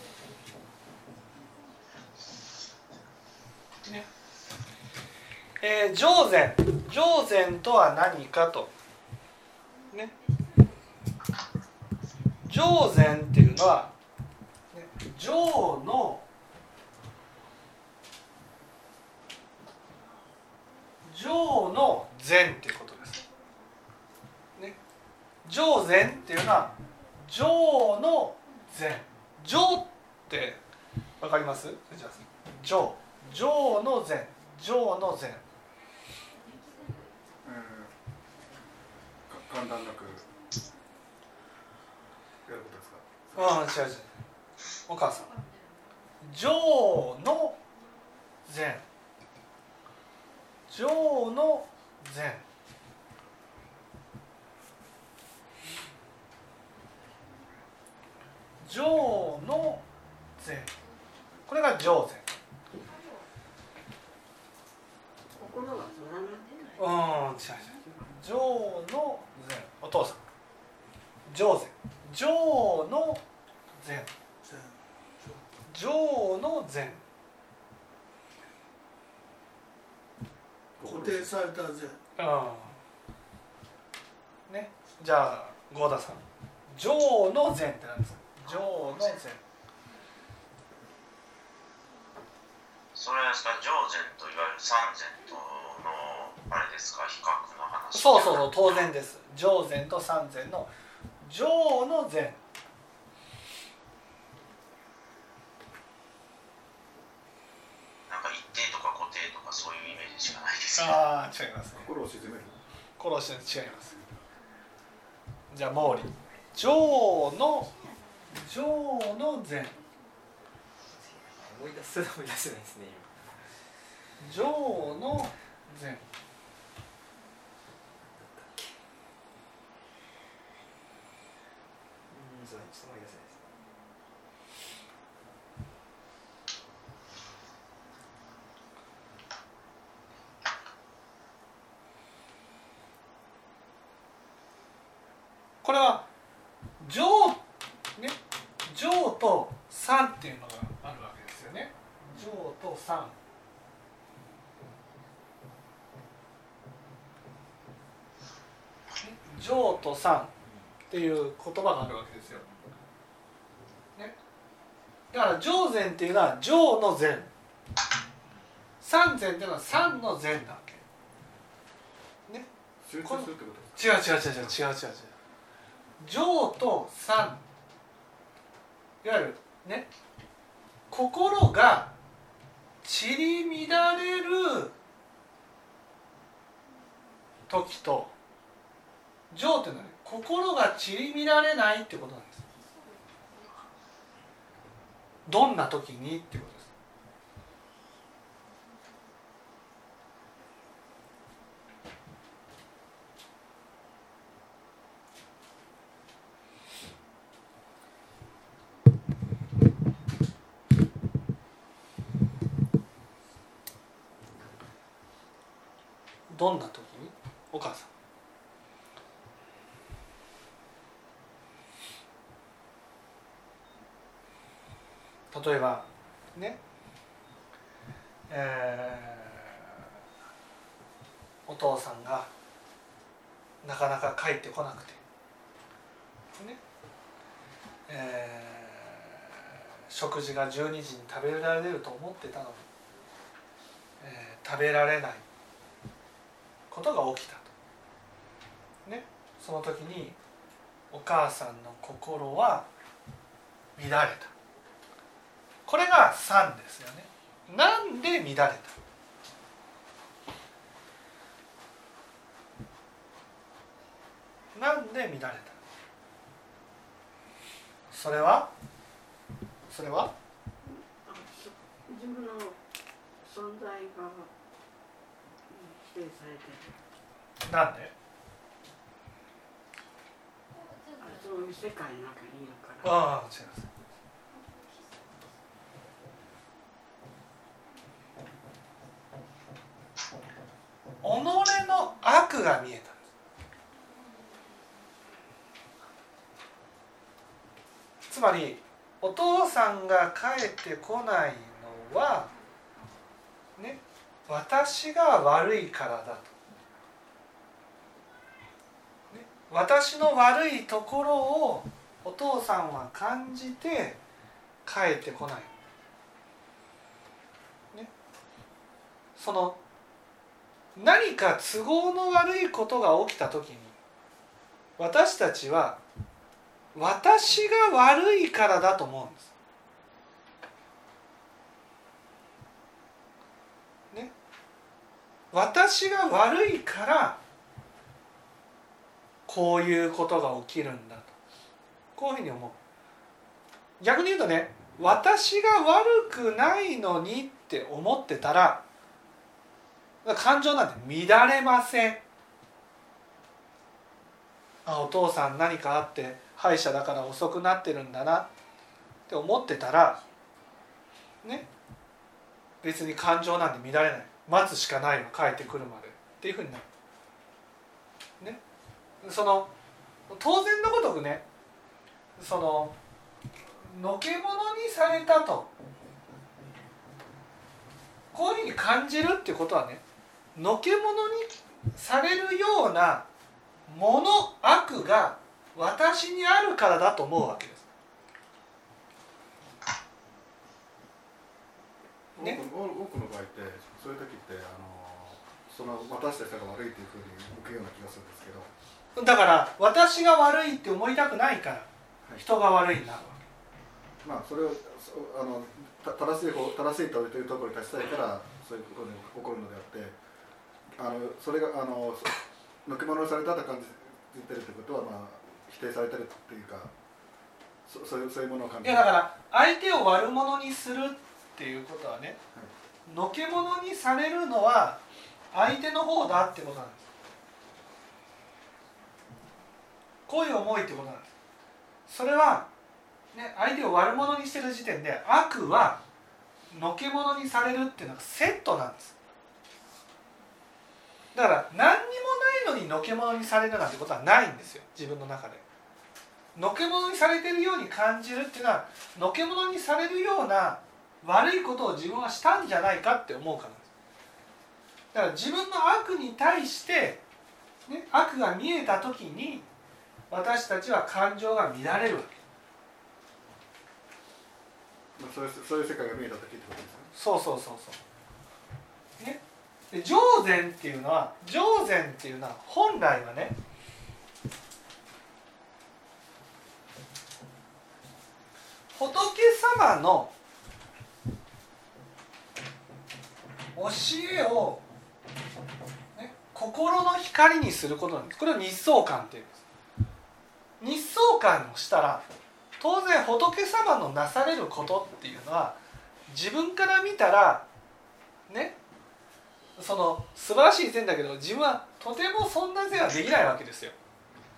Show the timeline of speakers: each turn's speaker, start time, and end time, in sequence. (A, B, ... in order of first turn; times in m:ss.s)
0:05.6-0:08.7 A
0:12.5-0:13.9 A
0:14.7-0:16.2 A
0:21.0-0:23.2 A
0:25.4-0:30.6 A
0:31.2-0:35.4 A
0:37.4-0:37.9 B
0:39.3-0:40.3 B
0:42.5-0:43.6 B
0:43.4-0:44.1 A
0:44.9-0:45.3 A
0:46.2-0:47.6 A
0:48.5-0:48.8 A
0:50.7-0:52.4 A
0:58.6-0:59.8 A
1:00.4-1:00.7 A
1:01.5-1:02.3 A
1:05.4-1:06.8 C
1:06.8-1:10.2 A
1:11.3-1:13.2 A
1:13.8-1:14.1 A
1:14.4-1:15.4 D
1:15.7-1:17.0 A
1:20.8-1:21.4 B
1:20.8-1:22.0 D
1:22.2-1:22.8 A
1:24.5-1:29.4 A
1:33.0-1:38.9 E
1:37.9-1:42.4 A
1:48.1-1:51.0 E
1:50.8-1:51.9 A
1:51.8-1:52.6 B
1:53.0-1:54.0 A
1:55.5-1:57.7 A
1:58.3-1:59.8 A
2:00.9-2:03.3 F
2:04.2-2:06.0 A
2:08.1-2:08.7 F
2:12.1-2:13.5 F
2:25.6-2:26.1 A
2:26.8-2:27.4 A
2:28.7-2:33.2 A
2:39.0-2:40.3 A
2:40.9-2:42.5 A
2:45.1-2:47.3 A
2:48.8-2:50.8 A
2:52.8-2:54.6 B
2:53.0-2:55.1 A
2:56.0-2:57.4 A
2:59.0-2:59.9 A
3:00.9-3:01.9 A
3:02.8-3:04.7 A
3:07.5-3:08.1 A
3:09.3-3:12.4 A
3:15.3-3:16.7 A
3:36.3-3:37.9 A
3:45.3-3:46.6 A
3:48.3-3:49.7 A
3:51.5-3:52.3 A
3:53.6-3:55.0 A
3:57.9-3:59.2 A
3:59.9-4:02.7 A
4:04.0-4:05.2 A
4:06.7-4:07.5 A
4:08.9-4:10.2 A
4:10.9-4:12.7 A
4:13.8-4:14.3 A
4:15.7-4:18.8 A
4:24.6-4:25.6 A
4:27.9-4:28.5 A
4:29.7-4:30.1 A
4:30.6-4:32.6 C
4:33.2-4:34.3 C
4:35.5-4:36.8 C
4:37.5-4:37.9 A
4:41.0-4:43.0 C
4:42.8-4:43.7 A
4:51.0-4:53.0 A
4:58.1-5:02.3 A
5:03.6-5:06.3 A
5:09.1-5:14.0 A
5:14.7-5:15.5 A
5:19.2-5:19.6 A
5:20.8-5:23.8 A
5:24.8-5:25.8 A
5:26.8-5:29.3 A
5:35.3-5:37.2 A
5:39.3-5:41.1 A
5:42.0-5:42.6 A
5:43.8-5:48.6 A
5:50.0-5:52.0 A
5:54.7-5:58.3 A
5:59.1-6:00.0 A
6:01.2-6:01.5 A
6:02.6-6:06.7 A
6:09.0-6:09.5 A
6:10.1-6:11.2 A
6:12.2-6:12.8 A
6:13.6-6:15.5 A
6:18.1-6:19.8 A
6:20.4-6:23.1 A
6:23.7-6:27.7 A
6:32.2-6:38.5 B
6:39.0-6:43.2 A
6:44.0-6:50.0 B
6:50.8-6:56.7 B
6:57.7-6:58.9 B
6:58.6-7:02.2 A
7:02.9-7:04.8 A
7:05.3-7:06.9 A
7:10.1-7:11.1 A
7:11.9-7:12.5 A
7:13.1-7:15.8 A
7:16.5-7:19.0 A
7:21.1-7:25.4 A
7:26.4-7:33.7 A
7:34.9-7:37.0 A
7:37.7-7:39.5 A
7:40.1-7:42.2 A
7:45.0-7:46.9 B
7:47.0-7:47.8 A
7:49.0-7:53.4 A
7:58.8-8:00.1 A
8:03.6-8:04.6 A
8:06.0-8:09.4 A
8:10.6-8:12.1 A
8:12.6-8:17.4 A
8:18.3-8:18.6 A
8:19.6-8:23.8 A